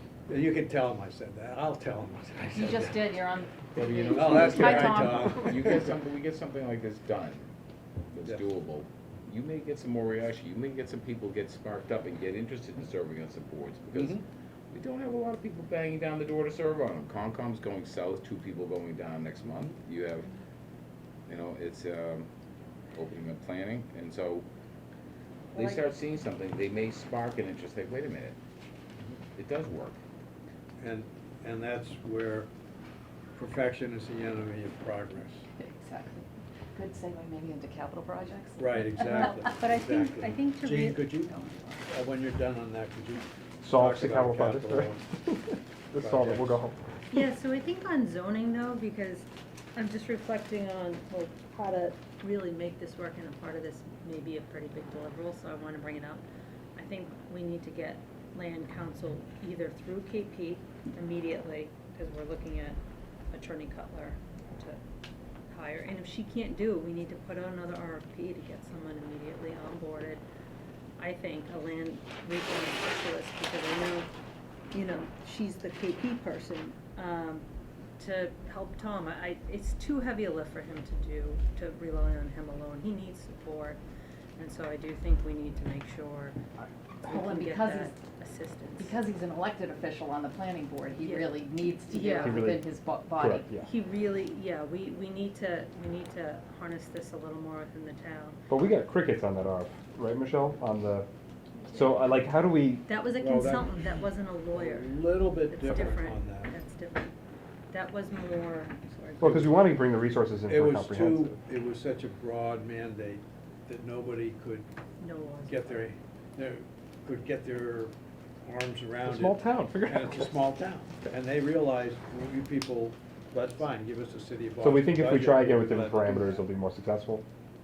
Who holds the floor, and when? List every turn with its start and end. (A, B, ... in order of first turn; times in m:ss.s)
0:00.3-0:03.2 A
0:02.6-0:05.8 B
0:03.8-0:07.5 C
0:04.0-0:06.0 A
0:08.1-0:14.2 C
0:13.9-0:14.2 A
0:14.7-0:20.3 C
0:21.3-0:22.3 C
0:23.0-0:24.5 C
0:25.5-0:28.4 C
0:29.4-0:30.0 C
0:30.8-0:32.5 A
0:33.4-0:35.5 A
0:35.6-0:39.5 B
0:38.6-0:45.0 A
0:39.3-0:41.1 D
0:41.0-0:41.8 B
0:43.6-0:46.8 E
0:46.0-0:46.6 A
0:47.1-0:56.2 D
0:56.8-1:02.8 D
1:03.3-1:04.8 D
1:05.5-1:10.2 D
1:11.0-1:14.1 D
1:14.7-1:17.4 D
1:18.0-1:23.8 D
1:24.4-1:26.4 D
1:27.0-1:29.0 D
1:27.1-1:28.0 B
1:28.8-1:33.5 B
1:31.0-1:31.3 D
1:31.9-1:32.4 D
1:32.2-1:33.7 E
1:33.6-1:38.4 D
1:38.5-1:41.1 E
1:41.7-1:42.9 E
1:42.9-1:47.1 D
1:43.2-1:43.8 A
1:44.5-1:46.6 A
1:47.7-1:49.5 D
1:49.2-1:51.3 E
1:49.2-1:49.5 A
1:50.5-1:54.7 A
1:55.0-1:55.8 D
1:55.5-1:57.9 A
1:58.4-2:06.4 A
1:59.0-2:00.4 E
2:04.6-2:07.2 E